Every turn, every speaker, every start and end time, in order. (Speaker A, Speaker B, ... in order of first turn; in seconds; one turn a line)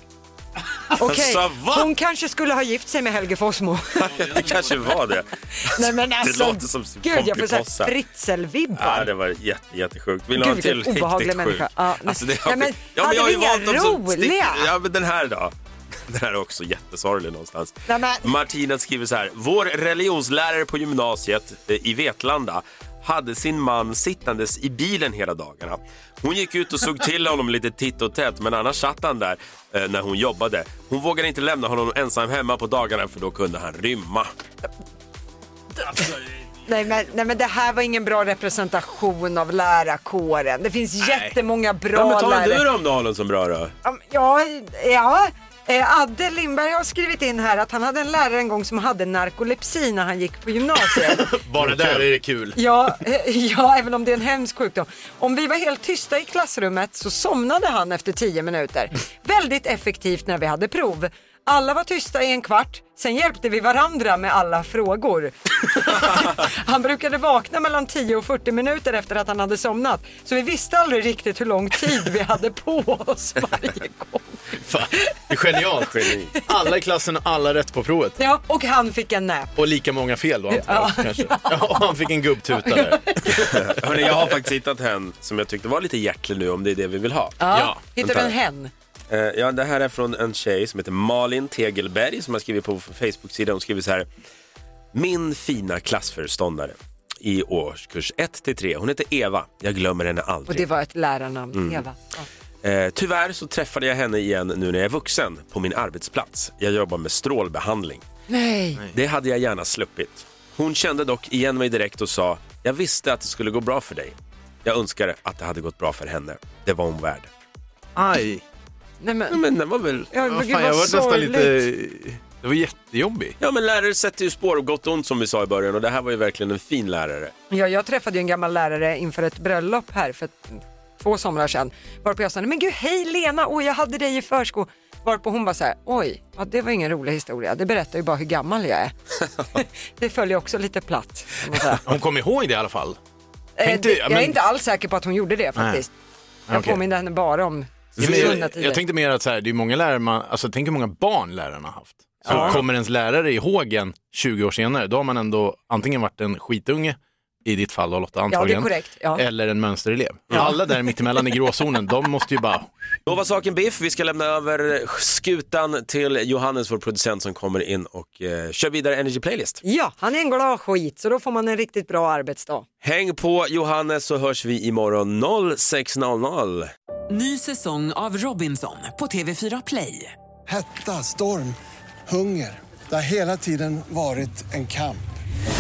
Speaker A: 0.9-4.2
Speaker B: 1.0-1.9
Speaker B: 4.0-7.9
Speaker A: 5.6-9.1
Speaker B: 8.8-15.5
Speaker A: 10.3-14.7
Speaker B: 16.1-34.3
Speaker A: 17.9-18.3
Speaker A: 36.6-42.7
Speaker B: 41.9-43.7
Speaker A: 43.8-51.3
Speaker C: 51.0-52.6
Speaker A: 52.5-75.1
Speaker C: 74.6-78.2
Speaker A: 78.2-79.5
Speaker C: 79.5-83.7
Speaker A: 80.5-81.8
Speaker A: 82.6-83.3
Speaker B: 83.5-87.4
Speaker A: 87.4-88.7
Speaker C: 87.5-87.8
Speaker B: 88.0-88.3
Speaker B: 89.1-94.1
Speaker B: 94.9-100.7
Speaker A: 100.5-102.2
Speaker B: 101.5-101.8
Speaker B: 102.6-108.0
Speaker A: 108.3-108.8
Speaker B: 108.9-117.3
Speaker C: 117.9-118.4
Speaker A: 119.0-119.4
Speaker B: 119.3-120.1
Speaker A: 120.1-121.6
Speaker C: 120.2-123.3
Speaker B: 123.4-127.3
Speaker A: 127.5-138.9
Speaker A: 139.5-141.8
Speaker C: 141.8-143.0
Speaker A: 143.6-145.9
Speaker C: 143.6-144.4
Speaker C: 145.6-145.8
Speaker C: 146.5-146.8
Speaker A: 146.5-148.8
Speaker C: 147.9-162.7
Speaker A: 152.2-152.6
Speaker B: 152.3-152.6
Speaker A: 158.3-159.2
Speaker B: 163.1-169.6
Speaker A: 169.6-172.7
Speaker B: 172.8-176.7
Speaker D: 177.1-180.1
Speaker E: 180.5-185.0